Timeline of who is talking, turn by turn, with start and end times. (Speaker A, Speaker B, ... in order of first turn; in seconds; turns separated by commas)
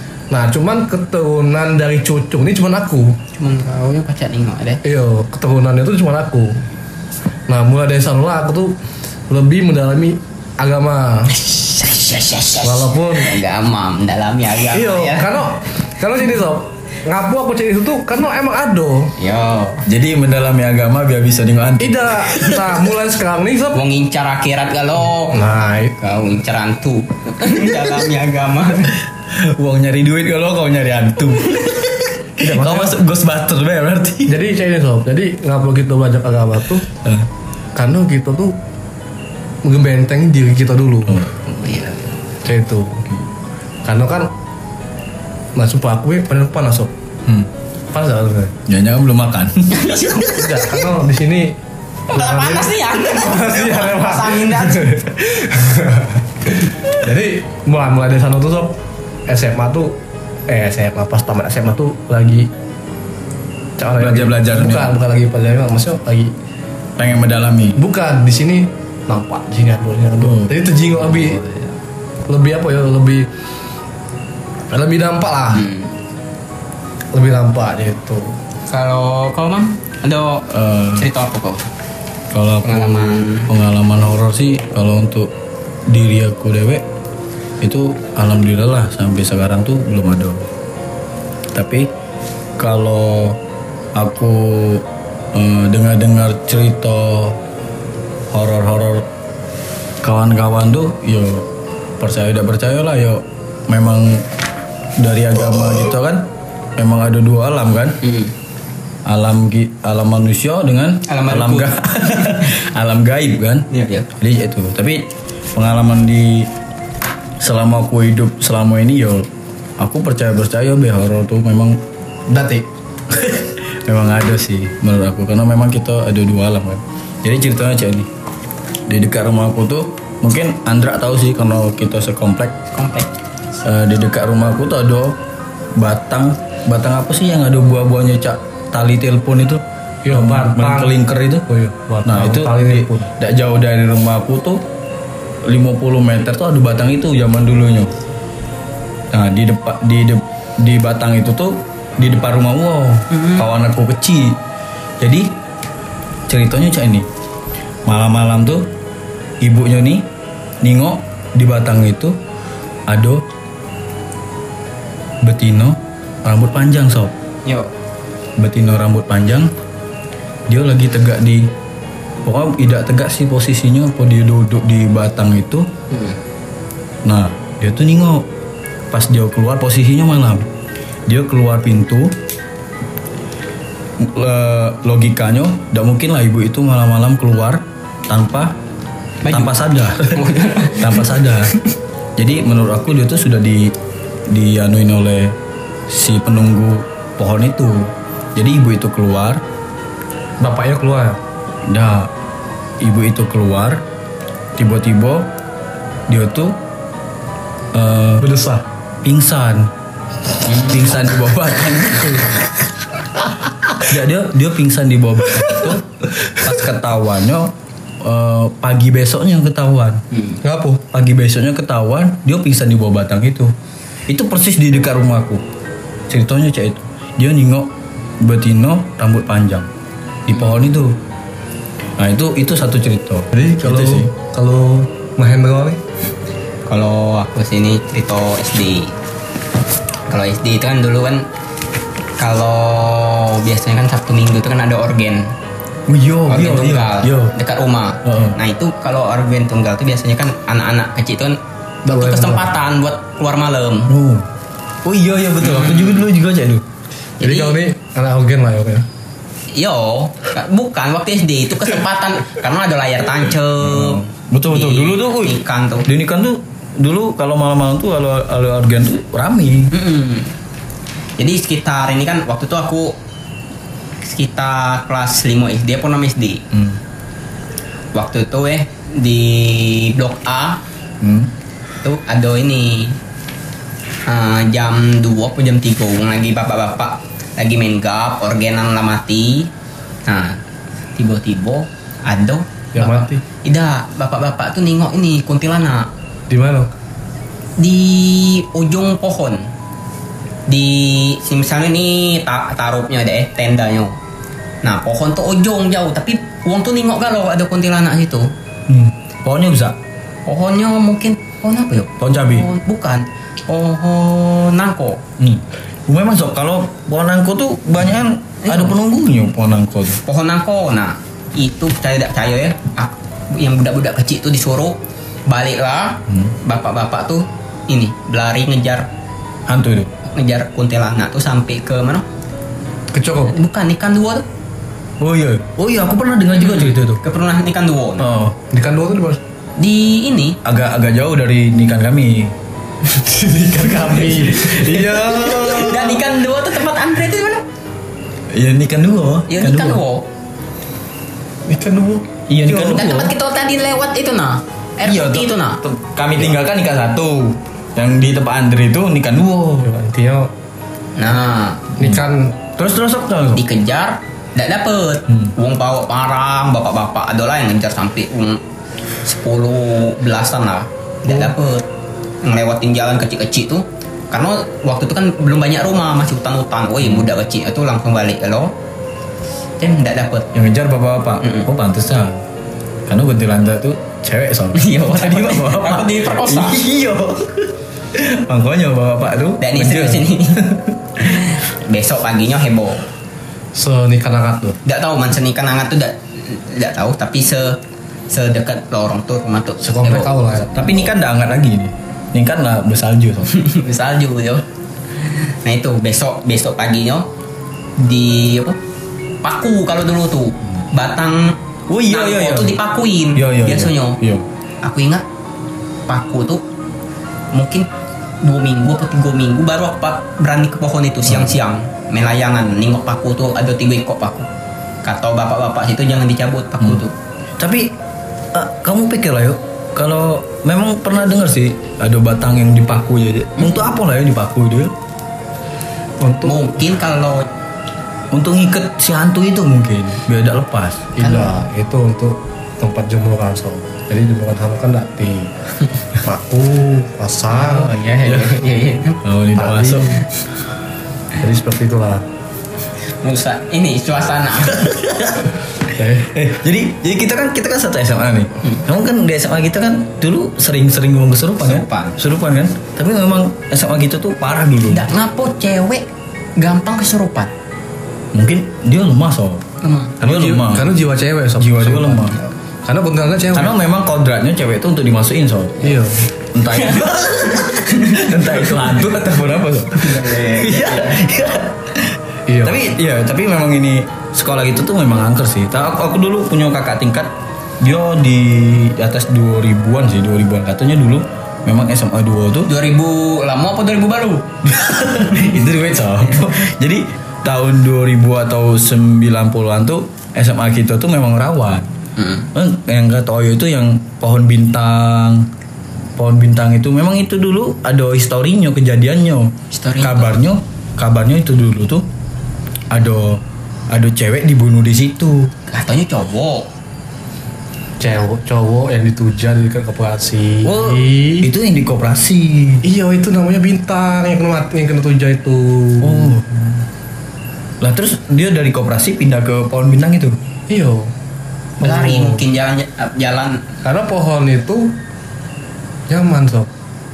Speaker A: 0.3-3.2, Speaker B: 3.3-4.8, Speaker A: 4.8-6.7, Speaker A: 7.5-8.8, Speaker A: 9.3-11.3, Speaker B: 11.4-15.4, Speaker A: 12.6-13.4, Speaker A: 14.7-19.1, Speaker B: 19.2-19.8, Speaker C: 19.9-22.8, Speaker A: 21.8-23.8, Speaker B: 23.7-25.4, Speaker A: 25.3-25.9, Speaker B: 26.0-29.0, Speaker C: 29.2-34.4, Speaker A: 32.4-33.0, Speaker A: 34.2-36.9, Speaker C: 36.9-37.3, Speaker A: 37.8-38.5, Speaker A: 39.6-41.2, Speaker C: 41.1-41.5, Speaker B: 41.6-42.0, Speaker A: 42.4-43.1, Speaker A: 43.8-44.3, Speaker A: 45.5-46.9, Speaker C: 47.2-47.5, Speaker A: 47.9-48.5, Speaker C: 48.7-50.6, Speaker B: 49.7-50.8, Speaker A: 50.3-51.6, Speaker B: 52.1-55.0, Speaker A: 52.1-60.0, Speaker A: 60.5-62.5, Speaker A: 63.8-66.3, Speaker C: 64.0-65.0, Speaker C: 67.0-67.8, Speaker A: 67.7-71.4, Speaker C: 70.2-70.5, Speaker B: 70.9-71.7, Speaker A: 72.3-73.3, Speaker A: 74.7-75.7, Speaker B: 75.5-75.9, Speaker A: 77.1-78.4, Speaker B: 78.7-81.7, Speaker C: 80.5-81.1, Speaker C: 82.3-85.3, Speaker B: 82.6-83.5, Speaker C: 85.9-86.8, Speaker C: 87.6-90.5, Speaker C: 91.5-91.9, Speaker C: 92.6-93.4, Speaker C: 93.9-97.4, Speaker C: 98.3-99.1, Speaker C: 100.0-101.5, Speaker C: 102.0-104.3, Speaker C: 105.0-108.0, Speaker B: 108.0-108.3, Speaker C: 109.0-116.5, Speaker B: 111.1-111.8, Speaker B: 113.7-114.1, Speaker C: 117.4-121.8, Speaker A: 122.3-122.6, Speaker C: 123.1-128.1, Speaker C: 128.9-132.6, Speaker B: 132.7-133.1, Speaker C: 133.6-135.2, Speaker C: 135.7-141.5, Speaker A: 140.0-140.9, Speaker A: 141.5-143.1, Speaker C: 142.0-144.6, Speaker C: 145.4-147.9, Speaker C: 149.1-154.4, Speaker B: 153.1-153.5, Speaker C: 155.0-155.3, Speaker C: 156.3-157.1, Speaker C: 157.8-158.7, Speaker C: 159.4-160.1, Speaker C: 160.6-162.2, Speaker C: 162.9-163.2, Speaker C: 165.2-167.1, Speaker B: 167.4-167.7, Speaker C: 168.4-169.5, Speaker C: 170.5-171.5, Speaker C: 172.2-175.7, Speaker B: 175.9-176.2, Speaker C: 177.0-178.3, Speaker C: 178.9-180.5, Speaker C: 181.1-182.2, Speaker C: 184.0-188.6, Speaker B: 189.2-191.6, Speaker C: 189.3-191.5, Speaker C: 192.2-193.7, Speaker C: 194.3-195.3, Speaker C: 195.9-199.4, Speaker A: 200.4-201.2, Speaker C: 201.7-202.1, Speaker C: 202.8-203.8, Speaker C: 204.6-205.3, Speaker C: 206.1-206.6, Speaker C: 207.7-208.2, Speaker A: 208.2-208.6, Speaker C: 209.0-209.7, Speaker C: 210.5-212.4, Speaker C: 213.8-220.0, Speaker B: 220.1-220.4, Speaker A: 220.4-220.8, Speaker C: 220.9-223.5, Speaker C: 224.1-225.4, Speaker C: 226.1-229.7, Speaker C: 230.3-231.0, Speaker C: 232.0-234.1, Speaker A: 233.3-235.8, Speaker B: 236.7-238.9, Speaker B: 240.1-241.3, Speaker B: 242.2-245.3, Speaker C: 245.9-247.3, Speaker B: 246.3-251.4, Speaker C: 248.0-248.4, Speaker A: 251.8-252.5, Speaker B: 251.9-253.9, Speaker C: 253.9-254.3, Speaker C: 254.8-256.6, Speaker B: 255.4-256.0, Speaker B: 257.2-257.6, Speaker A: 257.2-258.9, Speaker B: 259.5-265.9, Speaker C: 263.6-269.7, Speaker B: 269.7-270.3, Speaker B: 271.2-273.0, Speaker B: 274.0-276.4, Speaker C: 276.5-276.8, Speaker B: 277.9-280.6, Speaker C: 281.0-281.3, Speaker B: 281.8-283.0, Speaker B: 284.1-289.5, Speaker B: 290.1-290.4, Speaker B: 290.9-295.9, Speaker A: 292.7-293.2, Speaker A: 296.3-296.7, Speaker B: 297.6-299.5, Speaker B: 300.5-304.0, Speaker B: 304.6-308.3, Speaker C: 308.7-309.8, Speaker B: 310.2-315.0, Speaker C: 312.0-312.5, Speaker C: 315.2-320.0, Speaker B: 318.4-318.8, Speaker B: 320.0-328.9, Speaker C: 326.1-326.3, Speaker C: 329.5-329.9, Speaker B: 330.1-332.1, Speaker A: 332.9-333.4, Speaker B: 333.3-334.2, Speaker C: 335.0-337.0, Speaker B: 336.3-338.1, Speaker C: 338.0-338.4, Speaker A: 338.5-339.2, Speaker B: 339.6-340.4, Speaker C: 340.4-342.3, Speaker A: 342.9-345.7, Speaker C: 343.5-346.0, Speaker B: 345.6-347.4, Speaker C: 348.3-349.8, Speaker B: 349.3-350.1, Speaker A: 351.5-352.7, Speaker C: 352.3-353.1, Speaker B: 352.5-355.6, Speaker C: 354.8-359.7, Speaker A: 359.6-360.3, Speaker B: 360.9-361.7, Speaker A: 361.8-362.4, Speaker C: 362.6-363.4, Speaker B: 363.3-368.4, Speaker C: 365.1-365.3, Speaker B: 369.0-371.7, Speaker B: 372.2-378.5, Speaker C: 376.8-377.1, Speaker B: 379.6-380.3, Speaker C: 380.3-382.2, Speaker B: 381.2-381.5, Speaker C: 382.9-391.2, Speaker B: 384.5-386.6, Speaker B: 389.4-390.4, Speaker B: 391.0-392.9, Speaker A: 393.5-394.6, Speaker B: 394.6-397.6, Speaker B: 398.1-400.5, Speaker A: 399.6-400.8, Speaker C: 400.5-403.3, Speaker B: 403.3-404.4, Speaker B: 405.1-407.1, Speaker B: 407.8-408.6, Speaker B: 409.2-414.0, Speaker C: 411.7-412.6, Speaker C: 413.1-414.2, Speaker B: 414.6-415.0, Speaker B: 415.9-416.4, Speaker B: 417.3-417.7, Speaker B: 418.2-424.3, Speaker C: 421.1-421.3, Speaker B: 424.8-426.9, Speaker C: 427.4-427.8, Speaker C: 428.3-434.7, Speaker A: 436.0-436.4, Speaker B: 436.2-437.3, Speaker C: 438.1-440.9, Speaker A: 440.9-445.3, Speaker B: 441.0-441.4, Speaker A: 445.9-447.7, Speaker B: 447.3-449.0, Speaker C: 448.0-448.4, Speaker C: 449.0-450.0, Speaker A: 449.4-450.0, Speaker A: 451.2-452.0, Speaker B: 453.0-454.7, Speaker C: 454.4-455.3, Speaker A: 455.7-456.1, Speaker C: 456.0-464.9, Speaker B: 461.4-462.0, Speaker B: 464.7-467.3, Speaker C: 468.1-469.4, Speaker B: 469.6-470.0, Speaker C: 470.0-470.7, Speaker A: 470.0-473.5, Speaker C: 471.4-472.2, Speaker C: 473.3-475.7, Speaker A: 475.6-476.1, Speaker C: 476.3-492.5, Speaker B: 476.5-478.8, Speaker B: 479.7-481.0, Speaker A: 482.3-482.6, Speaker B: 492.4-494.3, Speaker C: 494.4-501.7, Speaker B: 502.0-502.3, Speaker C: 502.3-505.3, Speaker C: 505.9-511.9, Speaker B: 509.5-510.2, Speaker C: 512.7-515.3, Speaker B: 515.5-516.5, Speaker A: 517.8-521.3, Speaker C: 520.4-522.6, Speaker A: 522.6-526.2, Speaker C: 525.8-526.4, Speaker C: 527.6-530.2, Speaker A: 530.5-530.9, Speaker A: 531.6-532.2, Speaker B: 531.6-533.4, Speaker A: 533.6-534.8, Speaker A: 535.9-536.5